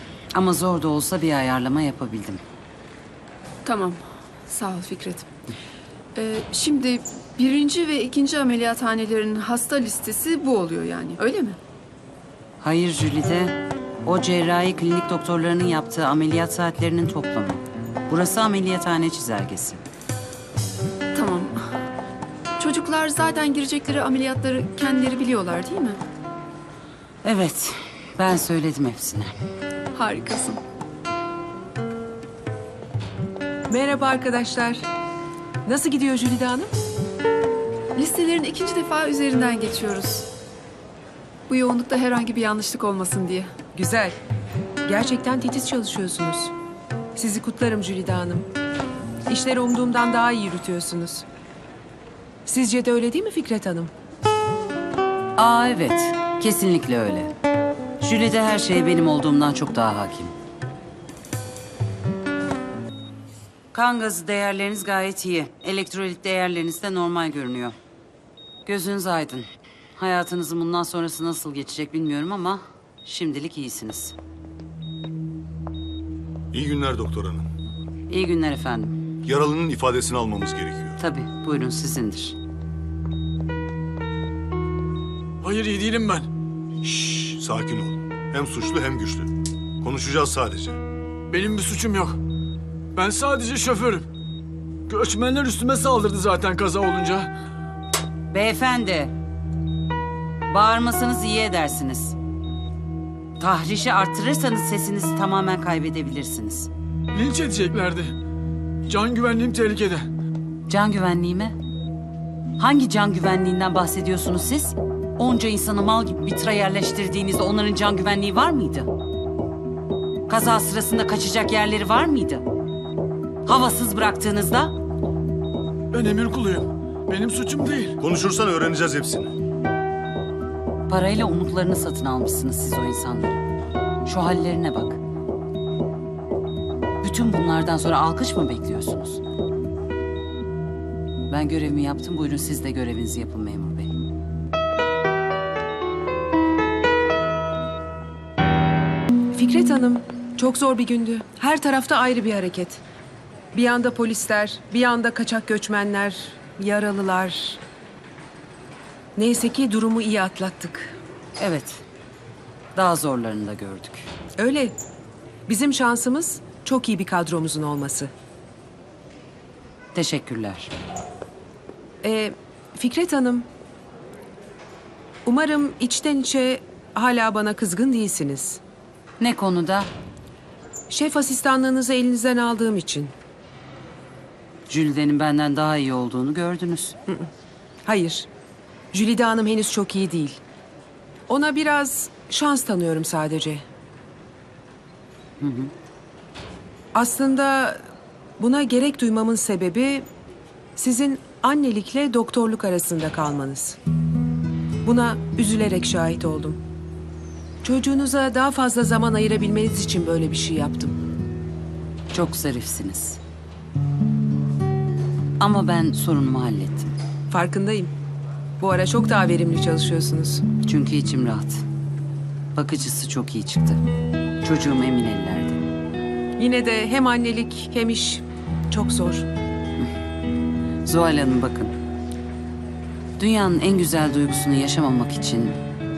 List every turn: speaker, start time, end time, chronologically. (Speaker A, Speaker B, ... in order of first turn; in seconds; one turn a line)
Speaker A: 0.3-2.4
Speaker B: 3.6-5.3
Speaker B: 6.1-11.6
Speaker A: 12.6-19.8
Speaker B: 21.1-21.6
Speaker B: 22.6-26.0
Speaker A: 27.2-29.3
Speaker B: 29.9-30.6
Speaker C: 33.7-34.9
Speaker C: 35.6-36.7
Speaker B: 38.0-40.3
Speaker B: 41.5-43.5
Speaker C: 43.7-44.1
Speaker C: 44.9-46.5
Speaker C: 47.1-48.5
Speaker C: 49.3-51.2
Speaker C: 52.5-53.9
Speaker A: 55.4-57.3
Speaker A: 58.0-60.3
Speaker A: 63.7-67.7
Speaker A: 68.7-69.5
Speaker A: 70.0-74.1
Speaker D: 76.5-77.5
Speaker A: 78.1-78.9
Speaker D: 79.2-81.0
Speaker A: 81.0-82.3
Speaker E: 85.4-86.3
Speaker D: 86.8-89.3
Speaker D: 89.8-90.8
Speaker E: 91.3-92.2
Speaker E: 92.9-94.0
Speaker E: 94.9-97.3
Speaker A: 98.3-99.1
Speaker A: 100.5-102.2
Speaker A: 103.4-106.7
Speaker E: 107.1-108.1
Speaker E: 108.9-110.1
Speaker A: 110.7-111.6
Speaker A: 112.6-118.9
Speaker A: 120.3-122.4
Speaker A: 123.4-124.7
Speaker E: 125.9-128.0
Speaker D: 128.0-129.3
Speaker A: 130.9-133.4
Speaker A: 134.0-135.0
Speaker A: 137.0-139.2
Speaker A: 141.3-143.9
Speaker C: 149.3-152.8
Speaker C: 153.5-157.6
Speaker C: 159.2-160.9
Speaker A: 161.4-161.8
Speaker A: 162.7-164.1
Speaker C: 164.4-164.8
Speaker C: 165.5-168.1
Speaker A: 169.9-170.7
Speaker C: 172.0-173.5
Speaker C: 175.2-178.6
Speaker A: 179.2-179.9
Speaker C: 180.9-183.1
Speaker A: 184.7-186.9
Speaker C: 187.8-188.3
Speaker C: 188.9-190.4
Speaker C: 191.3-193.6
Speaker A: 195.4-195.7
Speaker C: 196.9-197.8
Speaker C: 198.4-200.1
Speaker C: 200.8-203.8
Speaker C: 204.8-206.6
Speaker C: 207.6-210.9
Speaker A: 212.1-213.2
Speaker A: 215.4-216.9
Speaker C: 217.3-217.9
Speaker C: 218.6-220.4
Speaker A: 220.6-221.6
Speaker A: 222.5-223.8
Speaker A: 224.4-225.6
Speaker C: 226.4-229.3
Speaker A: 230.8-231.7
Speaker A: 233.2-235.6